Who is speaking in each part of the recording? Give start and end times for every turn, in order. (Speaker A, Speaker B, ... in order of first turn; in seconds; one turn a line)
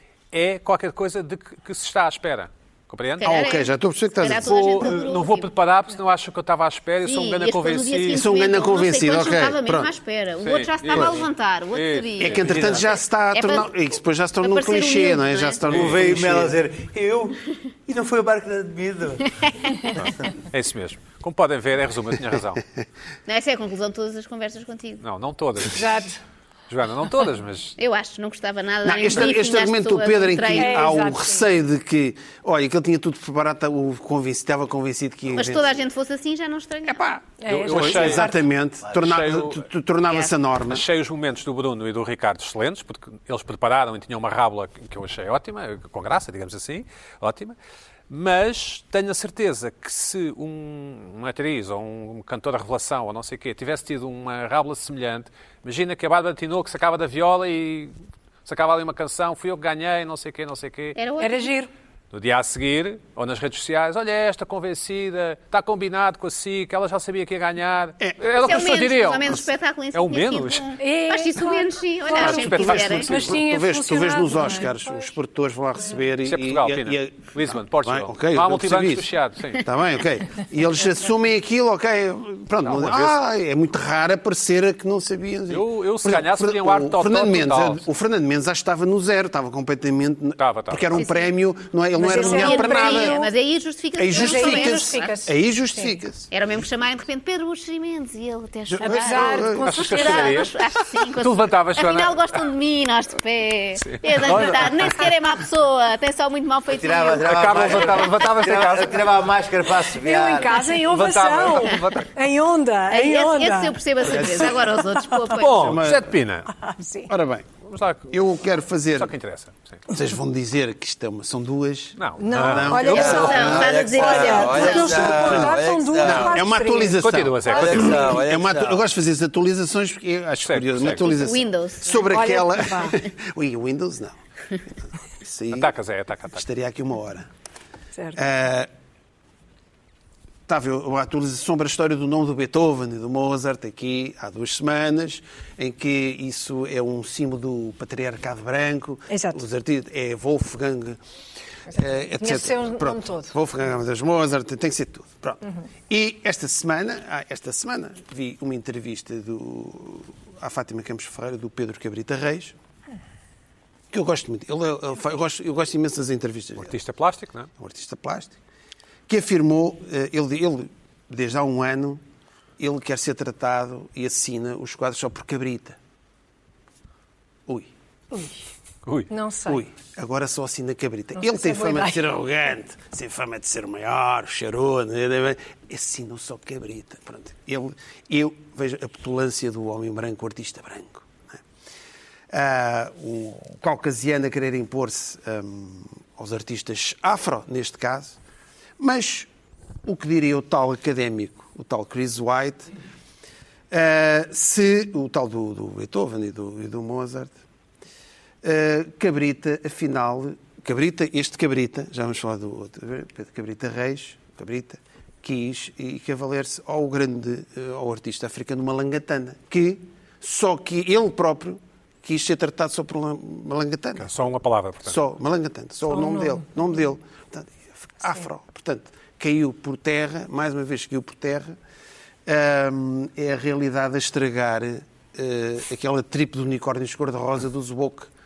Speaker A: 0.3-3.4
Speaker B: 3.2-5.5
Speaker C: 3.2-5.0
Speaker A: 4.3-8.2
Speaker B: 7.0-13.7
Speaker C: 8.1-9.9
Speaker A: 10.4-12.8
Speaker C: 12.2-16.5
Speaker D: 12.4-12.8
Speaker B: 14.4-15.6
Speaker D: 15.7-19.3
Speaker A: 15.7-16.0
Speaker B: 19.4-20.0
Speaker A: 20.5-22.6
Speaker B: 23.3-25.0
Speaker A: 25.0-26.0
Speaker E: 25.7-26.2
Speaker A: 26.7-27.8
Speaker B: 27.8-30.9
Speaker C: 28.8-35.8
Speaker E: 30.5-31.5
Speaker B: 35.3-37.0
Speaker C: 36.9-40.8
Speaker E: 37.4-38.4
Speaker A: 37.5-39.7
Speaker A: 40.7-47.5
Speaker A: 48.1-57.9
Speaker A: 58.4-61.0
Speaker B: 61.0-61.5
Speaker E: 61.2-61.7
Speaker A: 62.1-70.7
Speaker C: 68.0-68.4
Speaker B: 68.4-73.2
Speaker E: 70.8-75.1
Speaker A: 72.2-73.3
Speaker C: 72.2-93.2
Speaker A: 76.2-79.6
Speaker A: 82.6-83.2
Speaker A: 85.5-87.8
Speaker A: 90.4-91.0
Speaker E: 90.9-91.3
Speaker E: 92.0-93.3
Speaker B: 92.0-95.1
Speaker C: 94.0-96.3
Speaker E: 94.1-95.9
Speaker B: 96.3-107.5
Speaker C: 98.7-100.1
Speaker E: 98.8-100.4
Speaker A: 99.6-102.4
Speaker A: 103.8-105.1
Speaker D: 106.7-110.7
Speaker A: 107.2-109.1
Speaker E: 109.9-115.0
Speaker A: 110.8-112.1
Speaker B: 112.9-115.8
Speaker C: 114.1-114.6
Speaker A: 115.3-116.5
Speaker C: 115.6-116.1
Speaker E: 116.6-117.1
Speaker C: 117.1-117.5
Speaker A: 117.6-118.1
Speaker C: 118.1-119.1
Speaker A: 119.0-119.8
Speaker C: 119.9-123.7
Speaker A: 122.0-123.0
Speaker E: 122.2-128.1
Speaker B: 122.8-125.4
Speaker D: 122.8-126.4
Speaker C: 124.5-134.2
Speaker A: 127.0-127.9
Speaker D: 127.5-128.8
Speaker A: 130.4-131.1
Speaker B: 130.9-132.0
Speaker E: 132.1-133.0
Speaker C: 135.2-135.7
Speaker A: 135.5-136.4
Speaker C: 136.3-137.3
Speaker C: 138.2-138.7
Speaker C: 140.5-151.0
Speaker E: 149.1-149.4
Speaker C: 151.7-162.5
Speaker E: 152.2-153.3
Speaker C: 163.9-166.7
Speaker A: 166.6-167.5
Speaker C: 167.6-168.4
Speaker C: 169.1-172.0
Speaker C: 172.6-175.8
Speaker A: 178.8-179.1
Speaker E: 179.1-179.6
Speaker C: 179.4-191.4
Speaker E: 181.2-182.0
Speaker C: 192.3-198.2
Speaker C: 198.8-199.3
Speaker C: 199.8-202.7
Speaker C: 203.7-207.3
Speaker C: 208.4-224.1
Speaker A: 224.0-224.9
Speaker C: 224.8-231.6
Speaker E: 225.9-226.4
Speaker C: 232.2-238.1